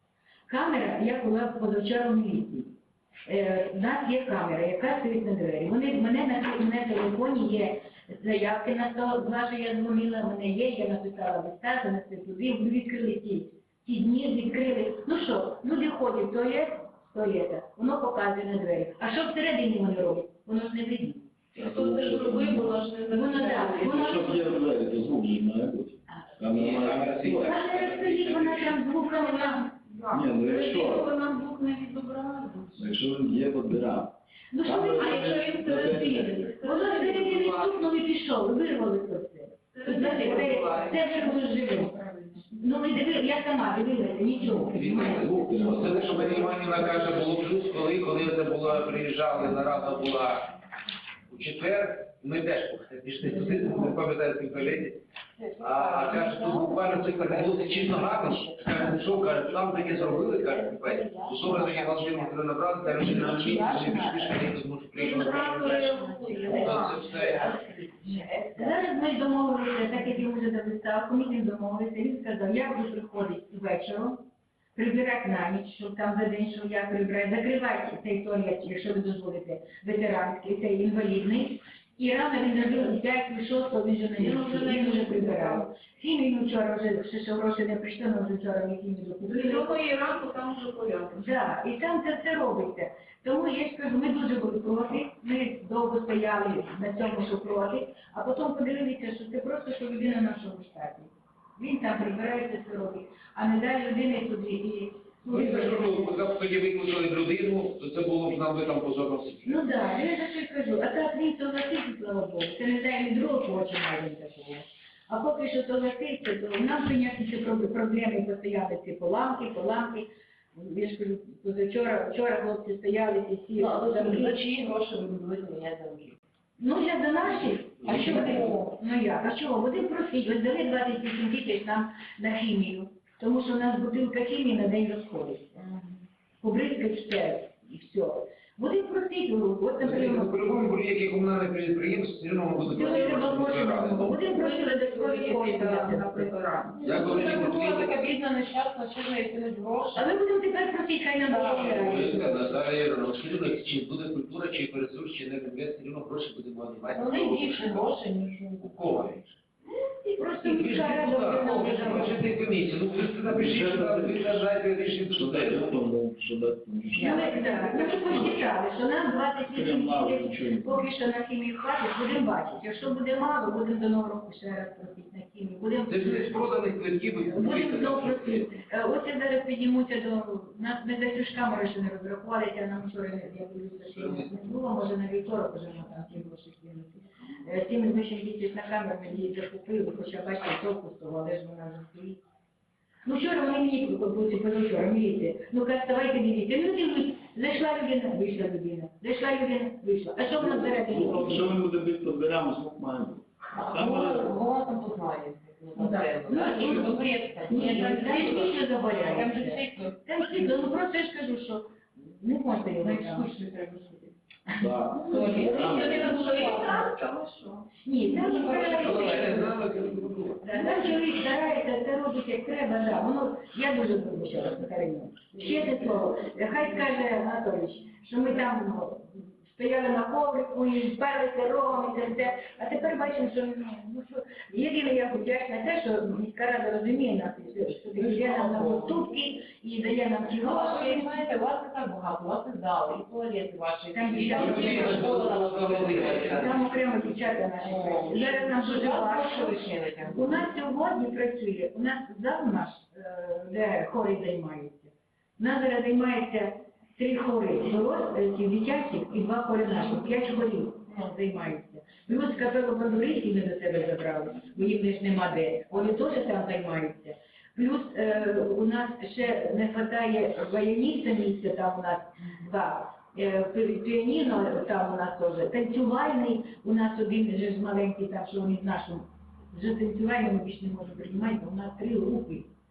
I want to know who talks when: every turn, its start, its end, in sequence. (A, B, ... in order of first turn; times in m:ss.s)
0:00.5-0:21.3 A
0:21.5-0:24.3 B
0:21.5-0:22.8 C
0:23.1-0:24.3 A
0:23.8-0:27.6 C
0:26.4-0:28.9 D
0:27.4-0:29.7 A
0:29.0-0:32.9 B
0:30.1-0:31.1 C
0:32.8-0:36.5 C
0:34.5-0:35.3 A
0:35.0-0:37.8 B
0:36.6-0:42.0 A
0:39.7-0:41.1 B
0:40.9-0:42.5 E
0:42.5-0:46.1 A
0:44.7-0:50.5 D
0:44.8-0:46.6 C
0:51.3-0:55.0 D
0:53.4-0:53.8 E
0:55.4-1:04.4 E
0:55.6-1:05.9 D
1:04.9-1:07.1 B
1:05.0-1:08.8 E
1:06.4-1:07.5 D
1:08.0-1:29.7 A
1:24.2-1:25.7 B
1:29.3-1:31.4 B
1:31.1-1:46.1 A
1:45.3-1:49.6 D
1:49.4-2:04.4 A
2:03.6-2:06.2 E
2:06.6-2:15.8 A
2:07.8-2:08.4 D
2:07.9-2:08.5 E
2:16.4-2:20.7 A
2:19.8-2:24.2 D
2:22.7-2:26.5 A
2:24.2-2:26.9 B
2:26.8-2:30.2 E
2:26.8-2:28.0 D
2:29.9-2:32.6 A
2:31.2-2:31.8 E
2:31.3-2:38.0 D
2:36.9-2:38.7 E
2:38.6-2:39.4 D
2:39.8-2:42.2 A
2:40.4-2:45.8 D
2:41.3-2:42.1 E
2:43.2-2:44.4 C
2:45.1-2:47.3 C
2:46.9-2:48.2 E
2:47.0-2:56.6 A
2:49.5-2:50.8 C
2:55.9-2:58.6 D
2:57.3-3:12.2 A
3:03.9-3:04.3 D
3:13.0-3:21.6 A
3:20.3-3:24.3 C
3:23.6-3:30.5 E
3:25.7-3:33.4 A
3:32.8-3:34.1 E
3:34.6-3:36.1 C
3:34.9-3:36.9 E
3:35.3-3:37.7 B
3:37.8-3:39.6 A
3:38.4-3:41.0 D
3:38.7-3:39.2 B
3:40.4-4:01.2 A
3:57.9-3:59.1 E
4:00.4-4:06.7 E
4:03.9-4:05.1 A
4:04.2-4:06.6 D
4:06.3-4:42.5 A
4:07.5-4:10.5 E